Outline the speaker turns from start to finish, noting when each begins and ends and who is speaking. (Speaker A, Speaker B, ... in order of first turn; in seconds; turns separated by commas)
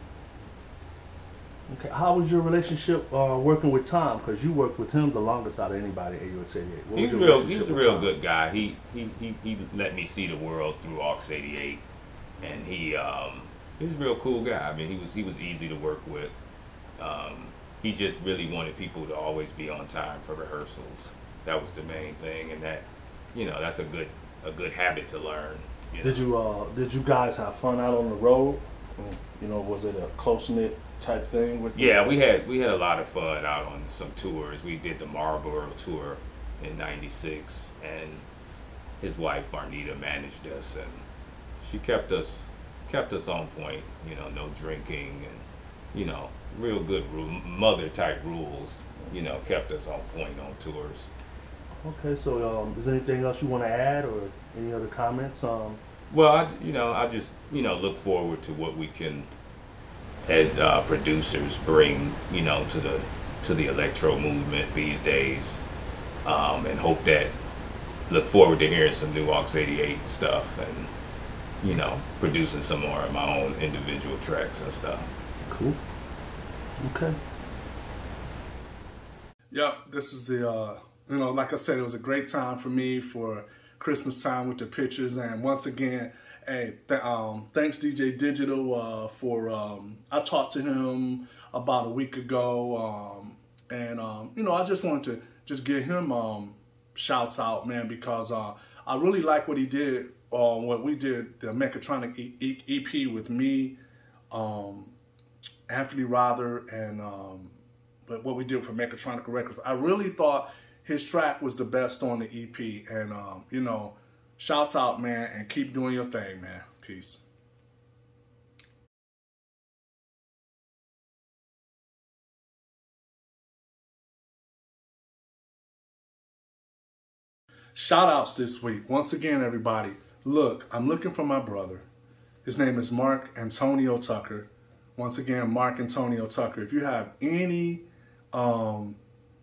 Speaker A: 1.7-8.1, Speaker B: 6.9-11.8, Speaker B: 12.4-16.3, Speaker B: 17.0-26.3, Speaker A: 26.0-32.2, Speaker B: 31.7-38.2, Speaker B: 39.0-41.0, Speaker B: 41.6-51.1, Speaker A: 51.8-55.8, Speaker B: 56.1-59.3, Speaker B: 60.2-65.6, Speaker B: 66.2-67.3, Speaker B: 68.1-70.9, Speaker B: 71.6-75.1, Speaker A: 75.4-75.8, Speaker A: 76.8-77.2, Speaker C: 79.5-103.8, Speaker C: 104.3-104.9, Speaker C: 105.7-117.2, Speaker C: 127.7-131.8, Speaker C: 132.4-139.0